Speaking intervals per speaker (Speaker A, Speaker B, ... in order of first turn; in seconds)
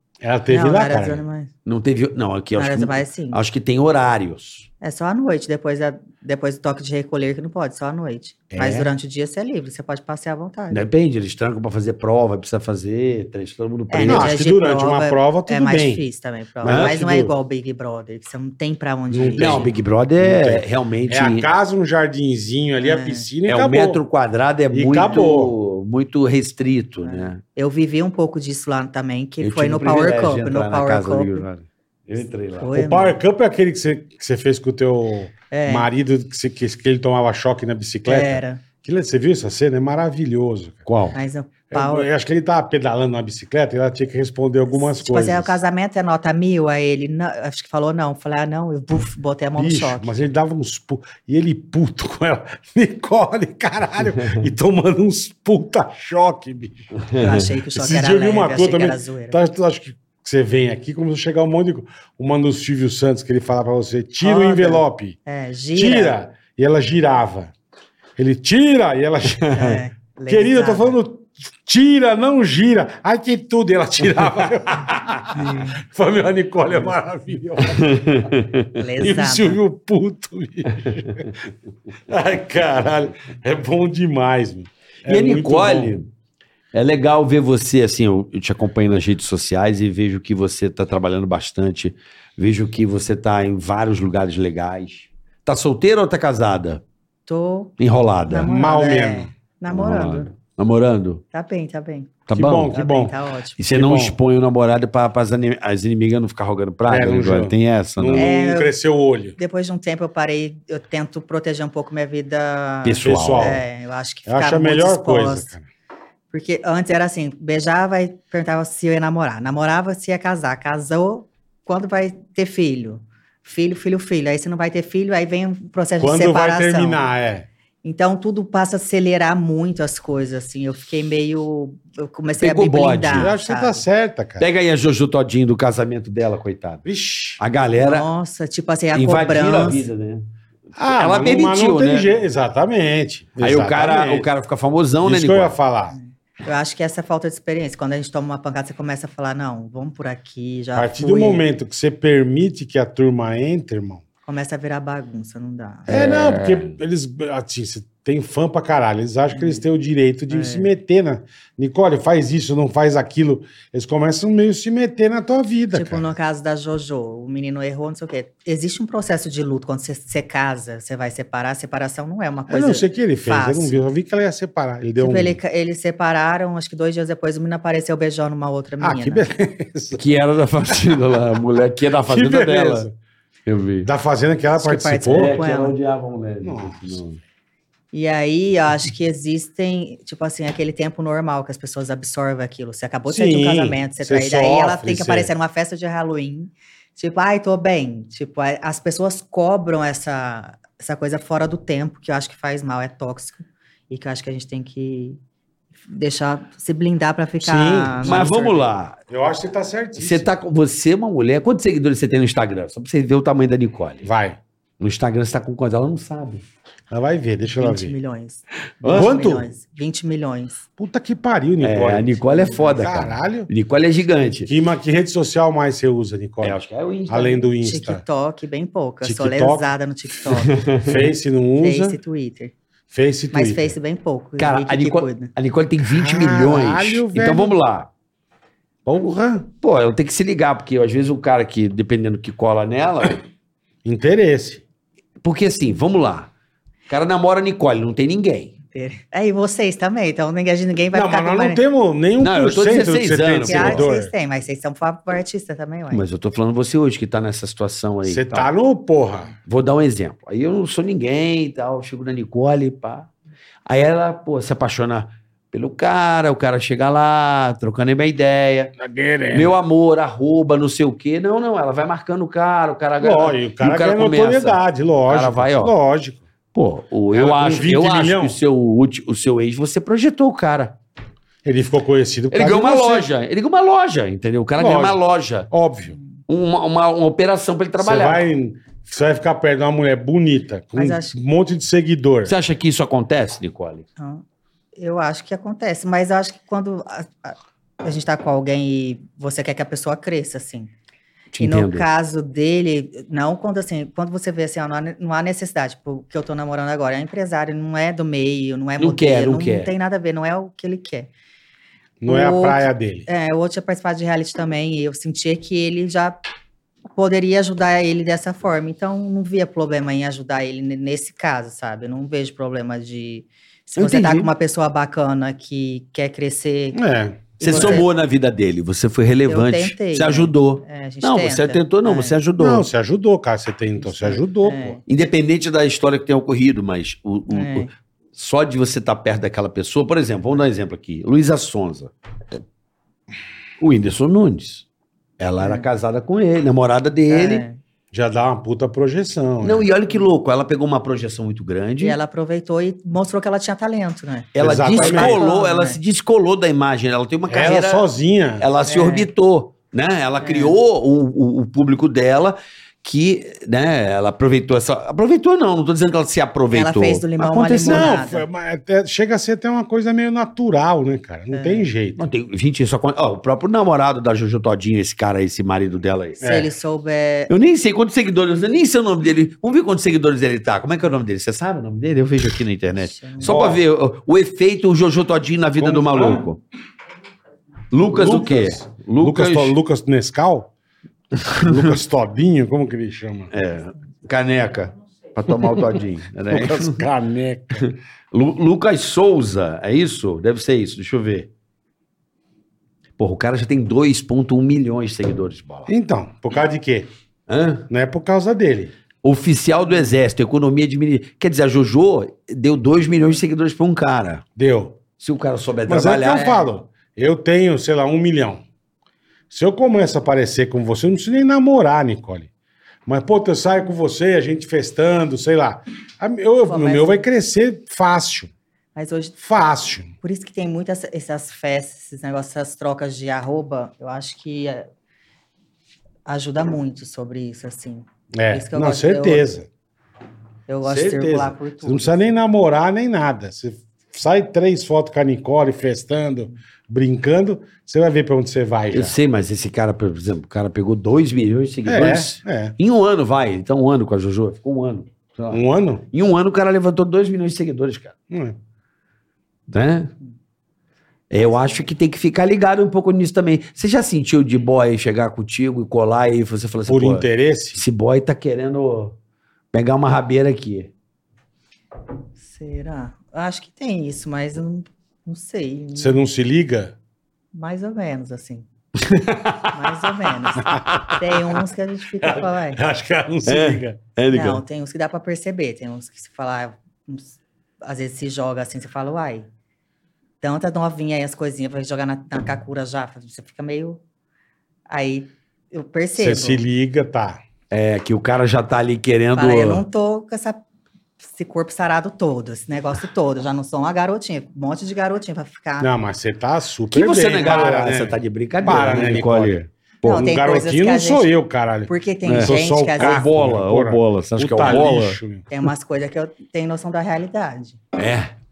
Speaker A: 0.2-1.2, 14.1-16.0, 16.6-17.3, 19.1-24.0, 24.7-25.6, 32.7-40.9, 41.7-45.6, 49.6-56.9, 57.7-65.2, 65.8-67.5, 68.2-78.3, 79.0-81.3, 82.1-86.0, 98.5-99.3, 102.3-103.2, 103.7-104.2, 106.9-109.4, 113.0-113.7, 114.3-115.7, 126.0-127.5, 133.1-134.5, 136.9-137.4, 140.8-144.3, 145.0-146.0, 150.8-154.0, 155.9-166.1, 172.5-175.4, 178.8-180.0, 180.7-181.0, 182.1-182.9, 183.8-185.3, 186.4-187.0, 193.1-195.3, 207.4-208.6, 209.1-210.3, 214.0-214.4, 216.9-217.9, 218.8-219.5, 220.8-223.5, 224.5-228.0, 229.0-229.7, 230.8-232.0, 232.9-233.8, 235.8-237.6, 238.9-239.5, 243.8-244.6, 250.9-254.1, 258.1-259.4, 268.8-269.5, 273.0-276.2, 277.1-278.4, 281.4-283.1, 284.6-285.0, 285.5-286.0, 287.8-292.3, 312.0-313.1, 326.7-327.9, 332.4-334.8, 347.9-349.7, 354.4-355.2, 357.3-358.5, 367.7-372.1, 376.2-376.5, 383.2-383.6, 385.6-386.2, 387.9-390.5, 391.4-393.3, 395.3-395.8, 396.3-397.6, 405.7-406.9, 407.7-408.7, 414.4-414.8, 415.7-418.4, 419.3-422.3, 422.9-428.3, 429.2-429.9, 438.2-439.5, 440.6-449.0, 451.7-452.5, 455.3-455.9, 458.1-458.4, 466.7-467.6, 475.8-476.8, 482.0-483.8, 496.0-497.2, 505.6-515.2
Speaker B: 0.5-1.5, 2.6-3.4, 4.8-10.8, 13.9-19.7, 22.8-23.3, 27.0-31.4, 32.6-33.2, 35.5-35.9, 38.0-38.6, 41.1-42.1, 44.7-50.2, 57.1-59.4, 64.2-66.2, 69.5-71.0, 75.3-75.8, 78.8-79.6, 97.3-97.7, 98.3-100.3, 101.3-103.6, 108.2-108.7, 109.4-115.5, 116.3-127.0, 127.8-133.8, 137.8-139.9, 145.9-151.4, 154.3-155.9, 159.3-159.6, 160.3-160.7, 165.7-173.8, 175.0-179.2, 184.6-185.8, 187.9-205.2, 205.8-208.6, 217.4-220.7, 222.3-222.7, 227.6-230.6, 231.6-232.5, 233.3-235.3, 248.7-251.6, 253.4-256.0, 290.7-291.2, 294.0-294.2, 294.8-300.7, 301.4-311.1, 312.1-316.2, 317.0-326.8, 327.4-327.9, 329.3-332.2, 333.8-334.8, 337.3-337.7, 345.4-345.7, 347.1-347.6, 351.8-355.8, 358.6-359.1, 360.2-360.6, 366.5-368.3, 371.3-371.7, 376.2-377.3, 382.8-383.4, 416.1-416.5, 426.5-427.0, 428.8-429.2, 430.0-434.7, 436.1-439.3, 440.5-442.1, 461.2-461.6, 472.2-476.0, 477.3-478.5, 479.5-482.6, 484.1-489.3, 490.2-493.8, 494.7-496.4, 499.1-500.4, 501.0-505.7, 509.8-511.1, 511.7-513.0, 515.3-517.6
Speaker C: 1.6-4.7, 8.5-8.9, 10.7-14.3, 16.6-16.9, 19.4-21.5, 23.5-27.4, 29.4-32.7, 40.9-41.2, 57.0-57.5, 77.7-78.8, 85.1-86.1, 86.7-96.8, 97.8-98.5, 99.7-101.2, 102.3-102.7, 103.6-108.3, 112.8-113.6, 132.4-133.3, 134.4-136.8, 137.4-138.1, 138.9-140.2, 140.8-142.1, 143.4-145.5, 155.9-156.8, 180.0-182.9, 183.5-183.9, 185.1-187.2, 208.0-209.0, 210.0-214.1, 214.8-216.4, 218.8-219.2, 221.6-224.5, 226.4-227.5, 230.3-231.0, 234.4-237.9, 239.6-243.2, 245.2-246.3, 246.9-248.5, 252.2-253.9, 255.9-258.5, 259.4-263.1, 263.7-268.7, 269.3-275.7, 276.5-280.8, 282.3-285.5, 286.3-288.2, 292.3-293.9, 301.3-301.9, 308.8-309.7, 323.8-324.3, 327.4-332.7, 334.9-341.9, 343.6-344.6, 345.2-347.4, 349.4-352.0, 354.4-357.9, 358.4-367.9, 372.0-376.2, 377.3-386.4, 387.7-389.6, 391.2-391.8, 393.3-396.9, 397.6-401.3, 403.0-405.7, 407.3-407.7, 409.0-414.2, 415.0-416.4, 448.7-458.0, 459.5-459.9, 461.1-467.1, 467.6-469.0, 469.5-470.7, 478.8-481.2, 483.3-484.4, 497.5-499.6, 506.7-509.5, 512.1-515.0, 517.8-518.1